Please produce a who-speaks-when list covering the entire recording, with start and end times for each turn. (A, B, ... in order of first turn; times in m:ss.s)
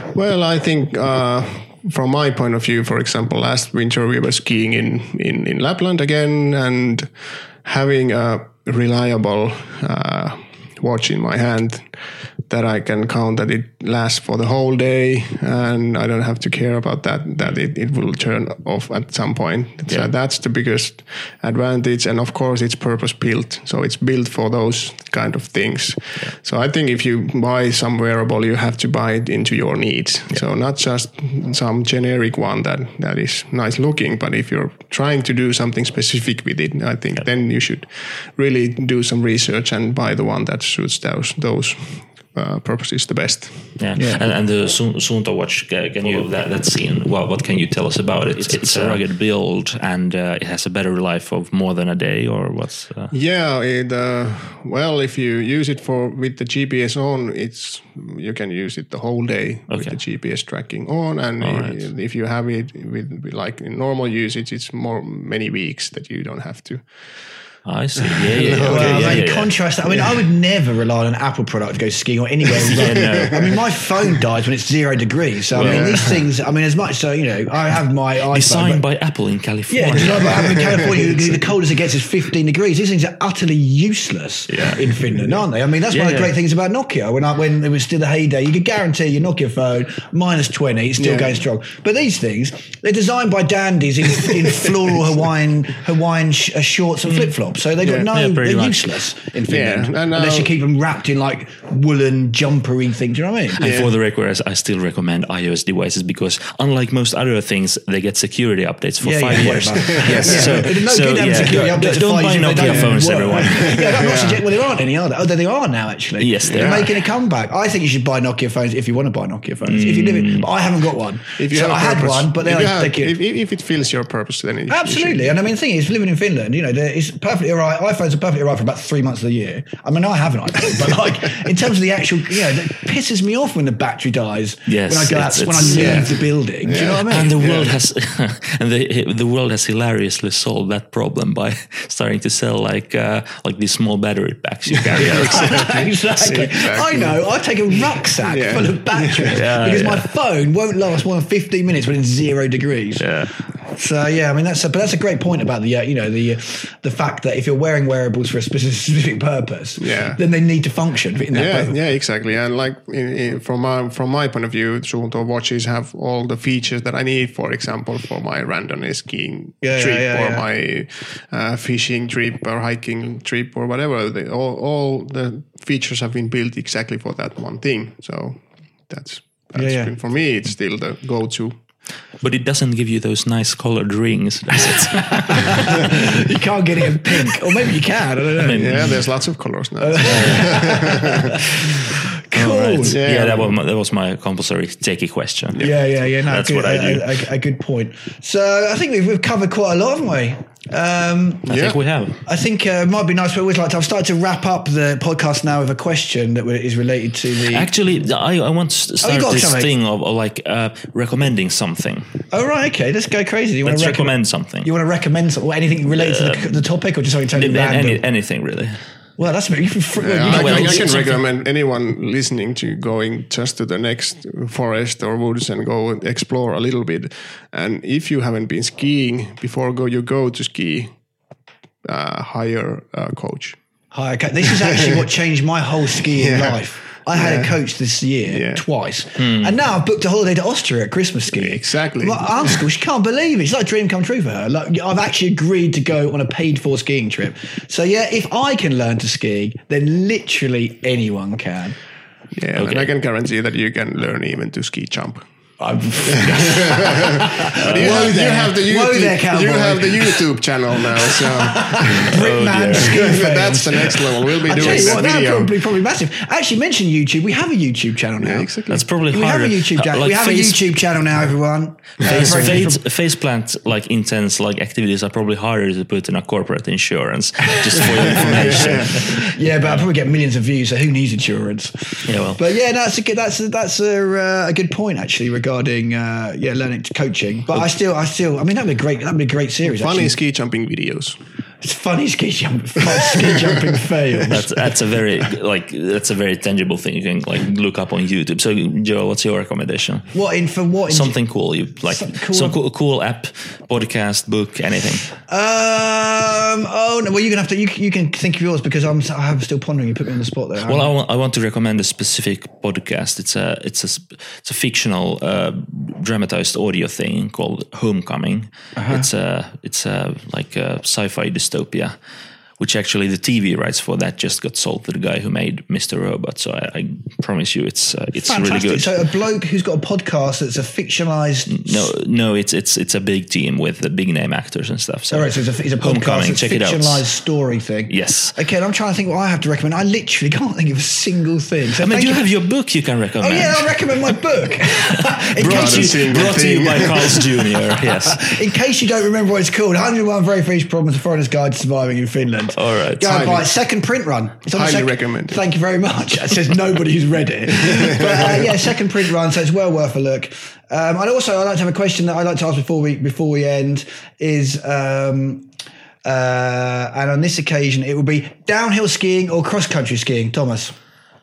0:00.1-0:07.1 A
0:07.6-0:43.7 A
0:43.8-0:53.1 B
0:44.0-0:44.2 C
0:48.5-0:49.0 A
0:53.1-1:06.9 A
0:59.7-1:00.0 B
1:01.4-1:01.9 B
1:07.6-1:09.5 B
1:08.0-1:09.2 A
1:08.6-1:18.8 C
1:12.6-1:13.6 B
1:12.8-1:13.6 A
1:15.5-1:16.2 B
1:15.6-1:16.2 A
1:18.3-1:20.5 B
1:19.7-1:43.6 C
1:20.2-1:21.0 A
1:24.5-1:25.0 B
1:25.9-1:26.4 B
1:31.0-1:31.4 A
1:37.1-1:37.3 B
1:37.8-1:38.1 A
1:38.1-1:38.9 B
1:39.5-1:40.5 A
1:43.6-1:53.8 B
1:43.6-1:43.9 A
1:49.0-2:03.2 C
1:49.8-1:50.7 A
1:53.4-1:54.5 A
1:56.2-1:57.0 B
1:56.5-1:56.9 A
1:59.7-2:00.5 B
2:01.4-2:05.4 A
2:04.7-2:17.4 C
2:14.7-2:16.1 B
2:15.7-2:17.8 A
2:16.8-2:25.6 B
2:24.7-2:27.2 A
2:25.0-2:33.1 C
2:28.2-2:29.4 A
2:29.3-2:30.1 B
2:33.0-2:33.3 B
2:33.7-2:41.8 C
2:39.8-2:40.2 A
2:41.3-3:01.6 A
2:49.6-2:50.4 C
2:59.6-2:59.9 C
3:02.2-3:06.0 B
3:05.1-3:09.0 C
3:08.4-3:09.0 B
3:08.6-3:11.4 A
3:09.8-3:13.0 C
3:10.0-3:10.6 B
3:12.3-3:17.2 B
3:12.9-3:13.5 A
3:15.6-3:21.5 C
3:21.5-3:21.8 A
3:21.5-3:22.2 B
3:22.2-3:27.7 C
3:27.5-3:32.1 B
3:29.0-3:29.7 C
3:32.3-3:38.0 C
3:33.6-3:34.7 B
3:35.9-3:36.7 B
3:37.3-3:38.8 B
3:39.2-3:41.0 C
3:40.0-3:50.9 A
3:40.2-3:41.2 B
3:51.9-3:53.6 A
3:53.9-4:11.8 C
3:54.5-3:55.0 A
3:56.1-3:57.6 A
3:58.3-3:58.6 A
3:59.2-3:59.5 B
4:01.3-4:02.6 A
4:12.4-4:15.2 A
4:12.6-4:12.9 B
4:15.6-4:20.2 C
4:16.1-4:22.2 A
4:17.6-4:18.1 B
4:21.1-4:32.8 C
4:22.0-4:23.0 B
4:22.8-4:25.5 A
4:24.5-4:25.0 B
4:28.2-4:28.9 A
4:28.7-4:30.7 B
4:32.0-4:39.9 B
4:32.1-4:32.6 A
4:37.8-4:39.1 A
4:37.8-4:50.2 C
4:42.1-4:42.4 B
4:49.6-4:51.2 A
4:51.6-4:54.5 C
4:54.3-5:00.1 B
5:00.1-5:01.2 C
5:00.9-5:05.1 B
5:01.8-5:02.6 C
5:05.3-5:10.9 C
5:10.6-5:21.9 B
5:18.8-5:19.1 C
5:22.6-5:28.9 B
5:28.2-5:31.9 C
5:31.5-5:37.1 B
5:35.1-5:42.2 C
5:37.9-5:38.4 B
5:41.8-5:44.2 B
5:43.2-5:46.0 C
5:44.9-5:48.4 B
5:45.4-5:47.4 A
5:48.0-6:05.5 C
5:52.6-5:53.3 B
5:53.0-5:53.5 A
5:54.5-5:55.4 A
5:57.6-5:58.5 A
6:06.0-6:10.7 C